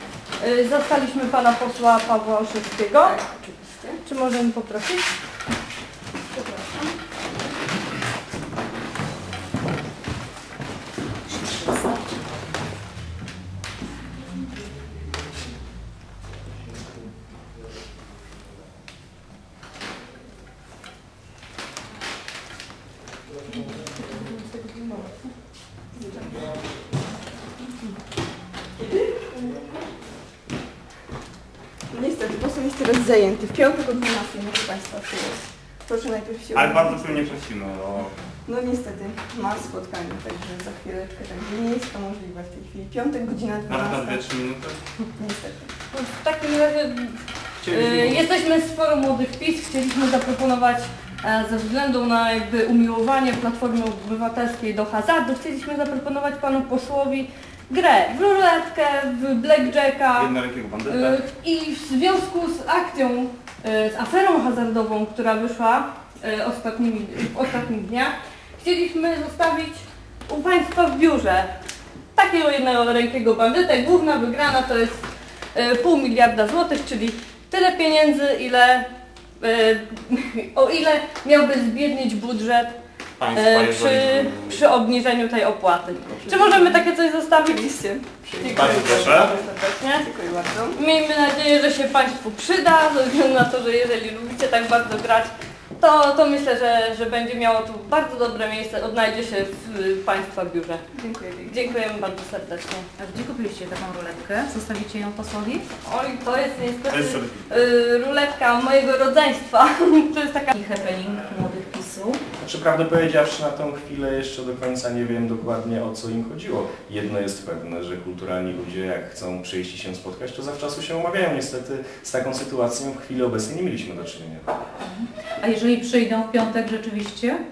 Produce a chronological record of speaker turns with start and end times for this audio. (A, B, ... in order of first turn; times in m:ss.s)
0:00.4-0:03.5 A
0:03.0-0:04.0 B
0:04.0-0:05.1 A
0:11.4-0:12.0 C
0:23.7-0:25.2 A
0:26.0-0:26.2 B
0:28.8-0:29.2 B
0:31.9-0:37.3 B
0:36.5-0:38.1 D
0:38.5-0:44.2 B
0:43.7-0:44.8 D
0:45.2-0:45.7 B
0:45.9-1:00.3 A
0:47.6-0:48.2 D
1:00.1-1:01.2 D
1:00.8-1:11.5 A
1:12.2-1:15.0 A
1:15.5-1:18.9 A
1:19.4-1:22.8 A
1:23.2-1:24.6 D
1:23.3-1:27.8 A
1:26.1-1:26.8 B
1:27.4-1:30.8 B
1:28.4-1:30.1 A
1:28.5-1:29.4 D
1:30.7-1:40.8 A
1:40.9-1:41.6 B
1:41.5-1:42.9 A
1:43.0-1:45.7 C
1:45.8-1:50.5 A
1:46.9-1:47.5 D
1:50.5-1:52.2 C
1:52.4-2:04.4 E
2:04.8-2:07.4 C